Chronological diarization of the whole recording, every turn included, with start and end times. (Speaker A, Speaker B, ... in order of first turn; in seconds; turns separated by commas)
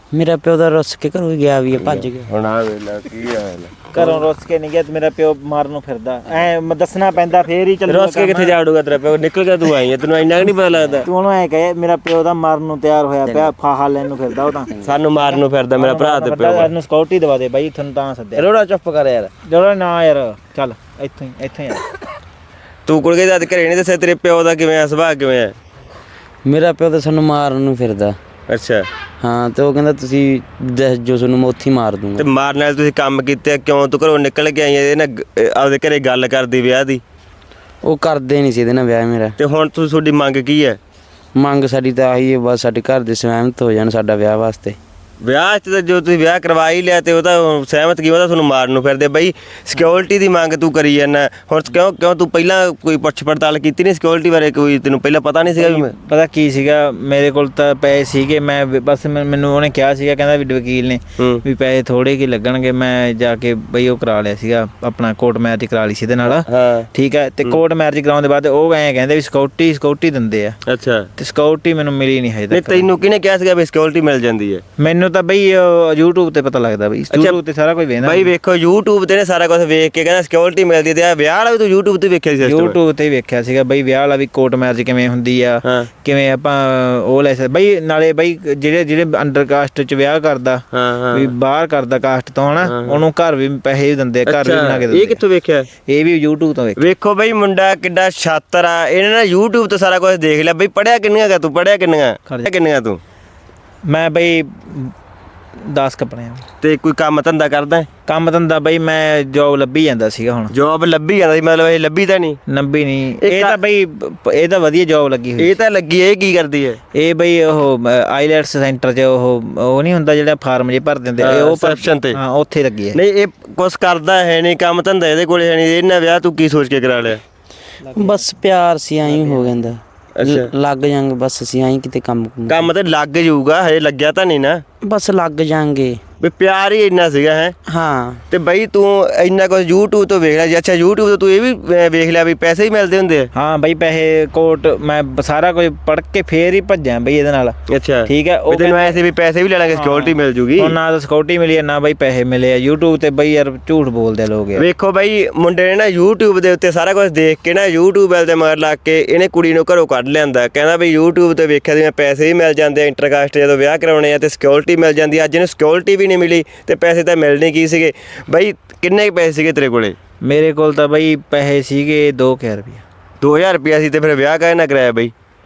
Speaker A: 0.1-2.3, Speaker B: 1.7-4.1, Speaker C: 3.9-8.5, Speaker B: 7.9-11.1, Speaker C: 11.0-18.4, Speaker B: 14.8-16.7, Speaker B: 18.4-19.3, Speaker C: 19.4-21.9, Speaker B: 22.9-25.5, Speaker A: 26.4-28.2, Speaker B: 28.5-28.9, Speaker A: 29.2-32.2, Speaker B: 32.2-37.0, Speaker A: 37.8-39.4, Speaker B: 39.4-40.8, Speaker A: 41.4-44.8, Speaker B: 45.2-55.9, Speaker C: 55.6-70.6, Speaker B: 61.2-61.4, Speaker B: 66.3-66.9, Speaker B: 70.7-71.1, Speaker C: 71.2-72.9, Speaker B: 72.5-74.6, Speaker C: 74.8-78.3, Speaker B: 77.1-77.4, Speaker B: 78.0-82.8, Speaker C: 82.4-95.2, Speaker B: 90.7-91.3, Speaker B: 92.6-93.0, Speaker B: 94.3-95.7, Speaker C: 95.9-96.8, Speaker B: 96.8-103.0, Speaker C: 103.9-104.9, Speaker C: 105.7-106.4, Speaker B: 106.6-107.9, Speaker C: 108.1-110.5, Speaker B: 110.5-112.4, Speaker C: 112.5-115.5, Speaker B: 113.2-113.6, Speaker B: 115.4-116.8, Speaker C: 116.9-123.0, Speaker B: 121.2-122.2, Speaker B: 122.9-127.2, Speaker C: 127.8-128.3, Speaker A: 127.9-132.7, Speaker C: 129.1-129.6, Speaker B: 130.2-130.5, Speaker B: 132.5-134.6, Speaker A: 134.8-136.0, Speaker B: 136.2-137.6, Speaker A: 137.7-138.2, Speaker B: 138.3-143.3, Speaker C: 143.3-147.6, Speaker B: 147.7-150.8, Speaker C: 148.1-149.0, Speaker C: 149.7-154.7, Speaker B: 154.6-169.9, Speaker C: 170.2-172.8, Speaker B: 173.2-175.1